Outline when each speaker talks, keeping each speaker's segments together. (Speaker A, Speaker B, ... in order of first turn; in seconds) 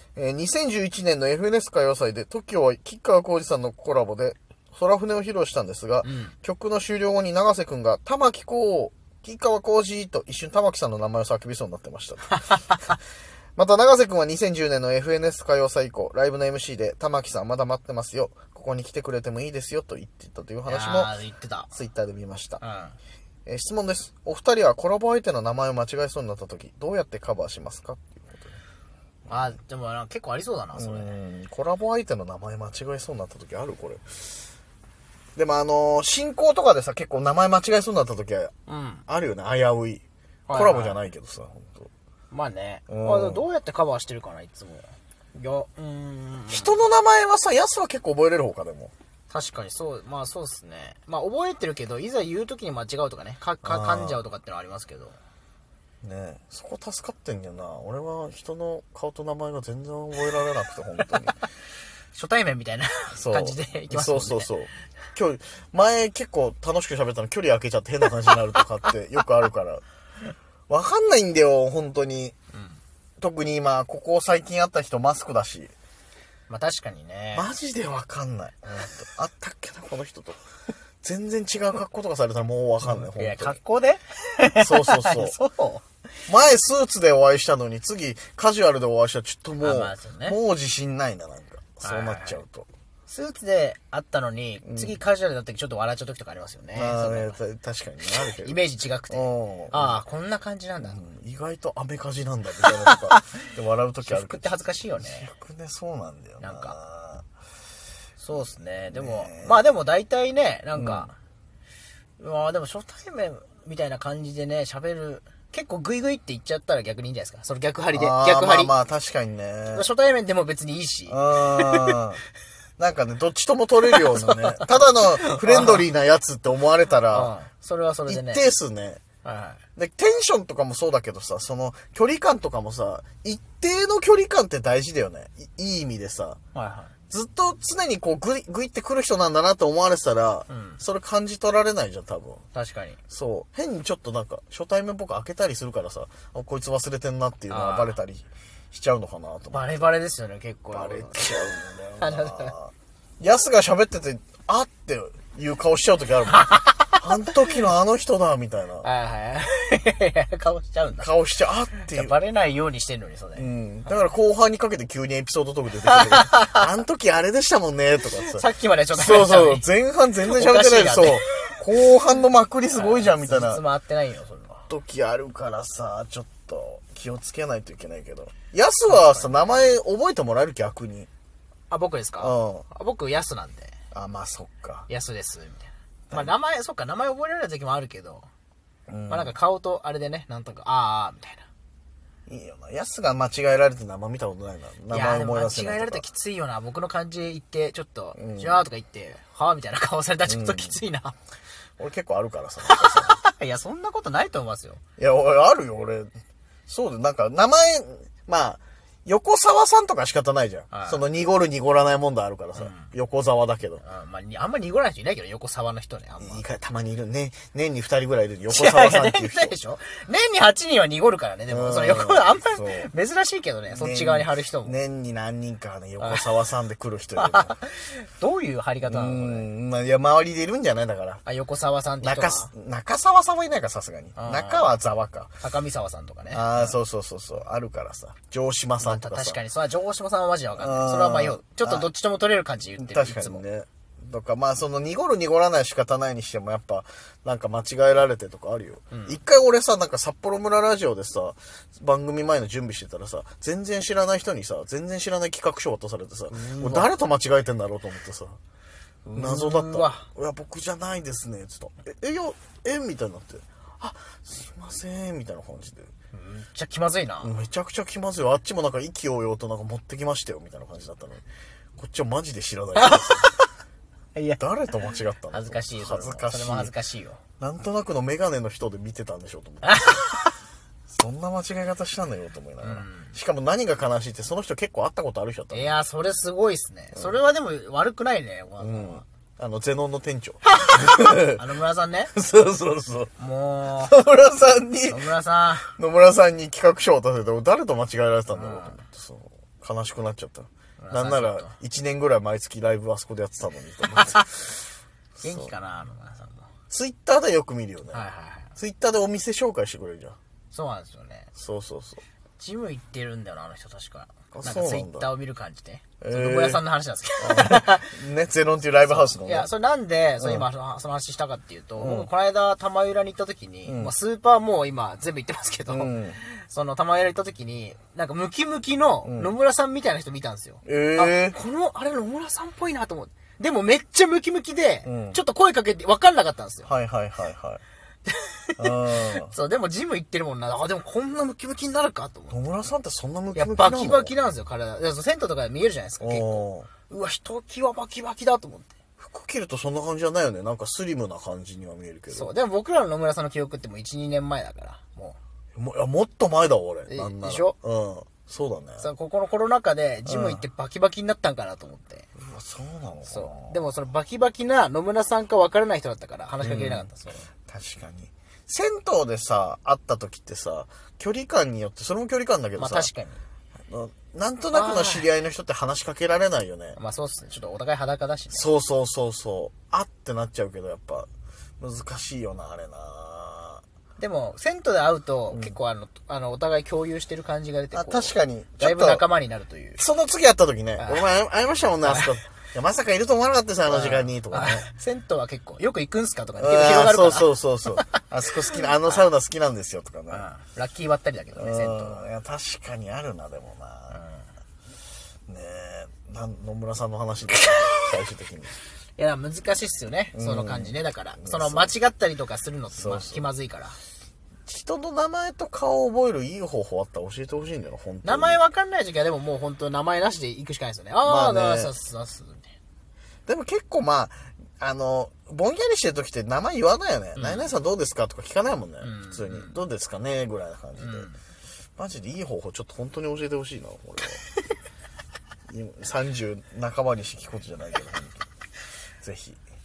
Speaker A: 0.1-12.8, 13.6-21.1, 21.7-22.6, 23.4-28.6, 29.3-29.5, 30.7-34.3, 35.4-38.5, 39.1-41.9, 42.9-43.5, 46.5-48.9, 53.6-54.2, 56.0-61.4, 63.1-69.8, 70.7-72.3, 73.2-75.7, 77.3-80.4, 81.0-83.6, 84.5-85.4, 86.3-92.7, 94.6-94.9, 96.7-98.6, 99.1-100.0, 100.8-107.2, 108.9-109.6, 110.7-111.1, 117.9-119.9, 121.1-122.2, 122.8-127.3, 128.1-129.0, 129.8-136.4, 137.1-142.4, 143.1-149.8, 150.7-158.9, 161.0-162.2, 163.3-173.6, 174.7-181.1, 182.2-182.7, 183.9-184.9, 188.9-189.3, 192.3-196.1, 198.2-198.7, 200.2-200.8, 201.8-203.2, 205.0-206.1, 206.7-213.8, 216.2-219.6, 221.5-222.9, 223.7-227.6, 228.8-231.2, 232.0-235.4, 236.3-239.4, 240.6-241.9, 242.8-258.4, 259.1-265.9, 267.2-271.2, 271.8-273.3, 274.4-276.7, 277.4-280.1, 280.9-285.8, 288.6-291.4, 292.1-293.1, 293.7-295.1, 295.6-304.5, 305.2-305.5, 306.7-310.2, 311.4-312.0, 314.3-315.1, 316.0-316.6, 317.2-319.5, 320.2-320.5, 321.8-322.1, 323.6-323.9, 325.7-326.2, 329.0-329.3, 330.6-331.4, 334.8-335.2, 336.6-337.6, 338.6-339.3, 342.3-344.1, 346.0-346.7, 349.0-352.3, 355.6-358.9, 360.0-360.4, 362.1-363.6, 366.4-366.9, 367.4-372.9, 373.7-376.8, 378.3-381.1, 381.6-383.6, 385.3-385.6, 387.7-389.0, 389.8-394.7, 396.3-400.3, 401.3-404.0, 405.3-408.6, 410.1-411.7, 412.7-413.3, 414.5-418.4, 421.0-421.7, 423.3-431.1, 431.8-434.2, 435.5-438.3, 439.0-439.4
Speaker B: 6.0-6.3, 20.6-21.7, 22.6-23.0, 29.3-31.1, 38.7-39.0, 40.5-41.0, 42.3-46.8, 49.3-55.2, 62.1-64.5, 72.5-72.8, 76.5-77.5, 82.8-85.8, 89.6-90.4, 91.8-92.4, 93.1-97.4, 98.0-101.0, 102.6-103.3, 104.0-105.3, 106.4-106.8, 108.2-111.2, 112.2-118.7, 119.7-122.0, 123.9-125.8, 127.1-128.4, 129.2-129.6, 136.5-136.9, 140.5-140.8, 142.5-143.0, 147.5-148.0, 149.5-152.5, 156.4-157.0, 158.8-161.1, 161.8-163.5, 165.9-166.6, 168.0-169.7, 170.2-171.6, 172.7-174.6, 178.9-179.7, 181.7-183.7, 184.9-188.3, 189.1-191.4, 194.9-201.2, 202.7-204.8, 210.7-211.0, 212.6-212.9, 213.8-216.4, 218.5-224.8, 226.0-226.2, 227.2-229.5, 231.2-232.5, 234.2-234.8, 235.4-236.8, 238.8-243.4, 248.9-249.2, 256.3-256.9, 259.1-260.1, 266.1-267.3, 272.8-273.5, 274.1-274.4, 275.3-277.2, 279.6-280.3, 282.6-283.1, 285.5-289.0, 290.5-292.1, 293.2-293.9, 294.9-295.7, 298.3-298.8, 300.8-301.5, 303.9-304.2, 305.2-306.5, 307.9-308.5, 310.5-311.3, 312.4-317.9, 318.8-336.7, 338.1-342.4, 343.3-348.7, 352.1-355.2, 356.9-357.5, 358.8-362.1, 363.1-367.3, 372.6-373.2, 374.5-375.1, 376.8-378.5, 384.0-389.8, 390.8-391.1, 391.8-392.1, 393.7-397.4, 400.1-402.0, 403.9-404.2, 409.0-413.8, 418.0-422.5, 427.1-427.5, 428.8-429.6, 430.8-431.2